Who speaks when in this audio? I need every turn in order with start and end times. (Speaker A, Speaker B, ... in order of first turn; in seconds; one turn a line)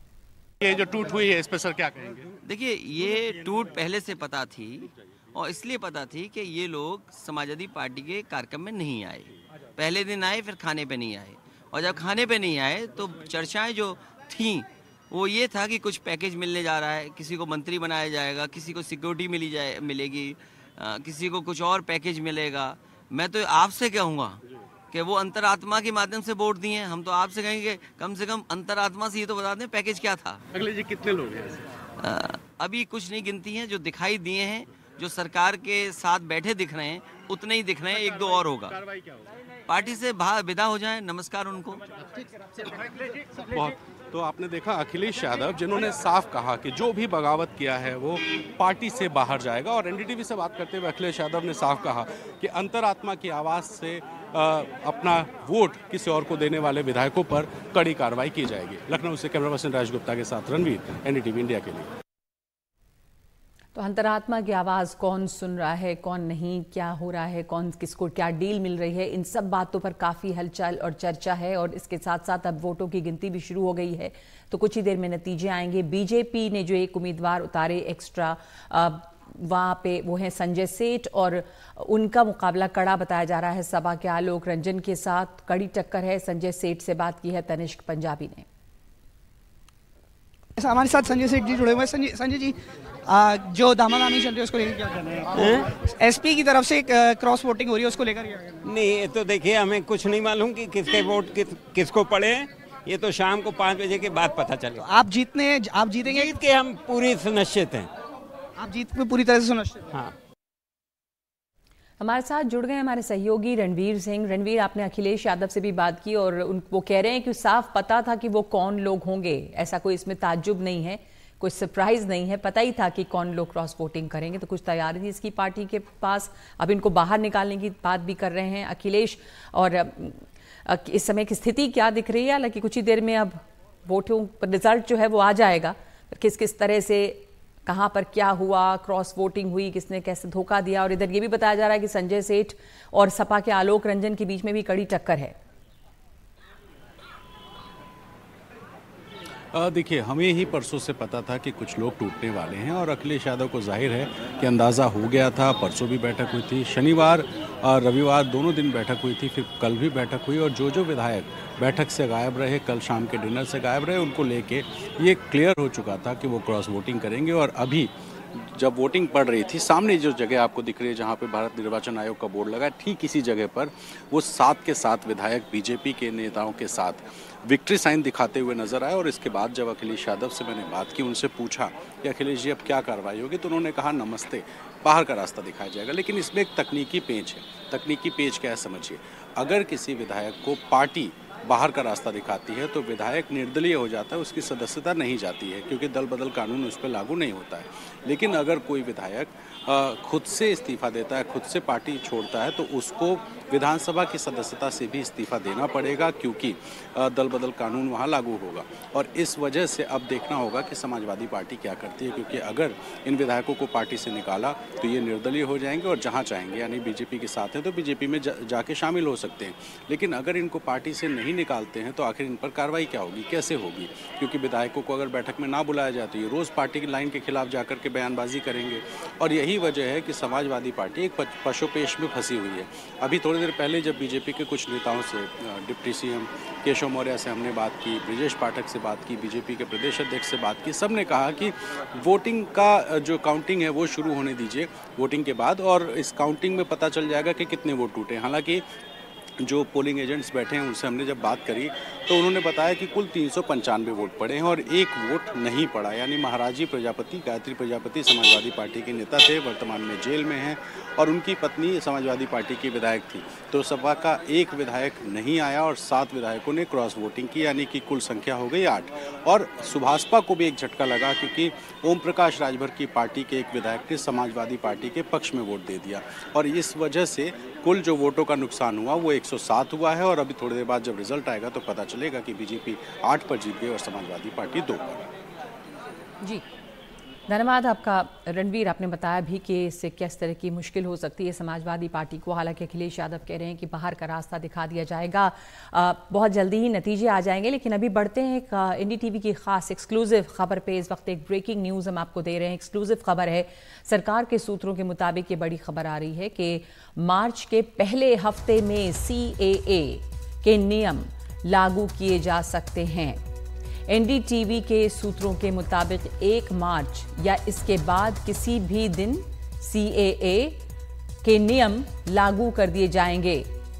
Speaker A: 0.6-2.2
Speaker B: 2.4-24.4
Speaker B: 24.9-30.4
Speaker A: 30.6-31.5
Speaker B: 32.0-38.8
Speaker B: 39.7-41.8
Speaker A: 43.4-61.9
Speaker C: 63.8-88.5
Speaker D: 90.6-92.6
Speaker D: 93.1-94.9
Speaker E: 95.4-95.7
Speaker D: 96.0-98.4
Speaker E: 98.6-104.8
Speaker D: 104.8-106.3
Speaker E: 106.1-107.9
Speaker D: 108.6-109.9
Speaker C: 112.0-145.3
Speaker A: 149.5-248.6
Speaker A: 249.4-285.1
Speaker C: 287.3-313.2
Speaker C: 313.9-320.6
Speaker C: 321.2-323.5